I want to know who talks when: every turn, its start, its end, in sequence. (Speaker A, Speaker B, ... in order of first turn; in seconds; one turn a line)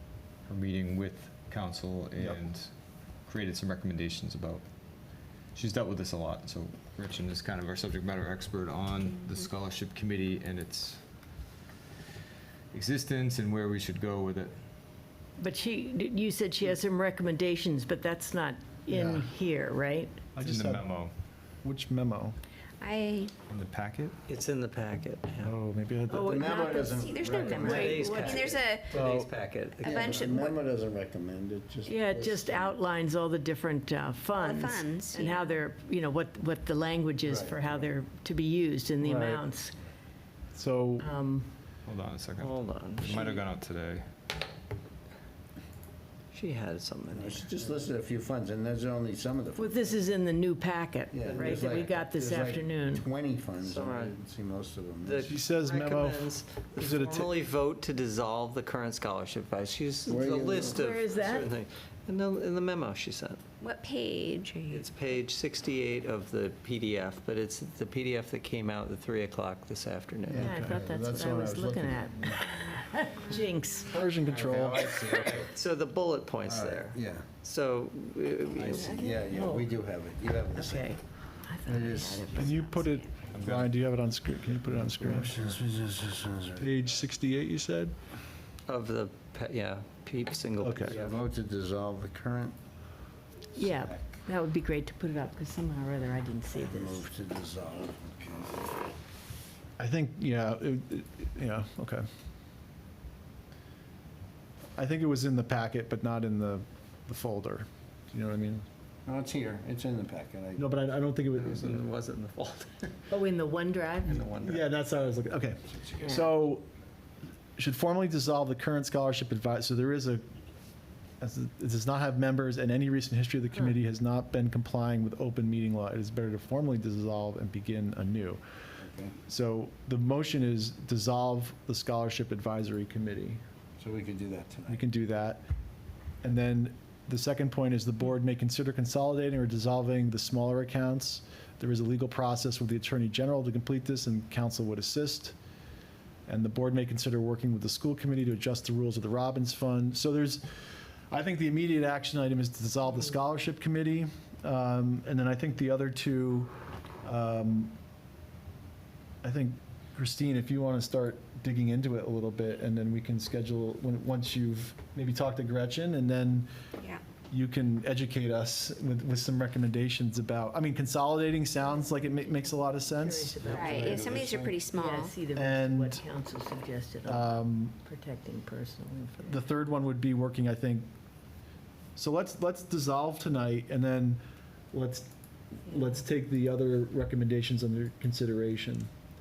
Speaker A: 0.5-2.7
Speaker A: 3.3-4.6
Speaker A: 5.5-11.0
Speaker A: 12.7-14.5
Speaker B: 15.4-20.2
Speaker C: 18.9-19.3
Speaker C: 20.4-20.9
Speaker A: 20.4-21.1
Speaker C: 21.6-22.4
Speaker D: 22.8-23.3
Speaker A: 23.5-24.1
Speaker E: 24.3-25.5
Speaker C: 25.4-26.5
Speaker F: 26.1-28.3
Speaker B: 26.1-26.9
Speaker D: 26.4-28.9
Speaker E: 27.5-30.6
Speaker B: 27.6-28.4
Speaker C: 28.9-29.3
Speaker D: 29.8-30.5
Speaker F: 29.9-32.8
Speaker B: 31.9-39.7
Speaker D: 34.3-35.5
Speaker F: 37.2-37.7
Speaker C: 39.0-39.5
Speaker C: 40.5-41.1
Speaker B: 41.0-41.5
Speaker A: 41.9-44.1
Speaker E: 42.4-43.4
Speaker E: 46.3-47.9
Speaker F: 47.1-50.0
Speaker B: 49.6-53.1
Speaker F: 51.1-55.3
Speaker E: 51.3-51.7
Speaker E: 53.6-54.1
Speaker E: 55.0-63.4
Speaker C: 55.2-57.3
Speaker F: 60.1-60.8
Speaker B: 60.7-61.5
Speaker D: 63.6-64.9
Speaker E: 64.7-70.5
Speaker F: 70.3-72.4
Speaker B: 70.3-73.9
Speaker C: 70.4-70.8
Speaker C: 73.9-74.9
Speaker F: 74.3-75.5
Speaker E: 75.1-79.2
Speaker F: 76.5-77.3
Speaker F: 78.6-80.9
Speaker D: 78.7-79.2
Speaker B: 79.3-79.7
Speaker B: 80.5-83.0
Speaker F: 81.7-82.5
Speaker C: 82.3-85.5
Speaker A: 83.3-83.7
Speaker F: 84.5-86.9
Speaker C: 86.6-87.9
Speaker E: 88.7-91.2
Speaker C: 90.6-91.0
Speaker F: 90.9-92.6
Speaker B: 93.5-97.0
Speaker F: 93.6-94.2
Speaker F: 96.5-98.8
Speaker C: 99.8-102.1
Speaker C: 104.8-108.7
Speaker F: 109.1-110.6
Speaker C: 110.6-111.8
Speaker E: 111.3-113.0
Speaker B: 113.1-114.3
Speaker E: 114.0-114.7
Speaker C: 114.4-116.7
Speaker B: 116.0-116.3
Speaker C: 117.6-120.2
Speaker C: 121.2-128.4
Speaker F: 128.8-129.2
Speaker C: 129.3-133.4
Speaker F: 133.8-134.8
Speaker C: 134.7-135.4
Speaker C: 136.2-145.3
Speaker C: 146.3-150.4
Speaker C: 151.1-156.5
Speaker C: 157.0-157.8
Speaker C: 159.2-166.5
Speaker C: 167.3-174.4
Speaker B: 172.9-174.1
Speaker F: 173.4-174.5
Speaker D: 173.5-175.2
Speaker B: 174.8-179.4
Speaker C: 175.3-176.0
Speaker C: 177.1-177.8
Speaker C: 179.2-180.9
Speaker C: 182.0-184.2
Speaker C: 184.7-188.9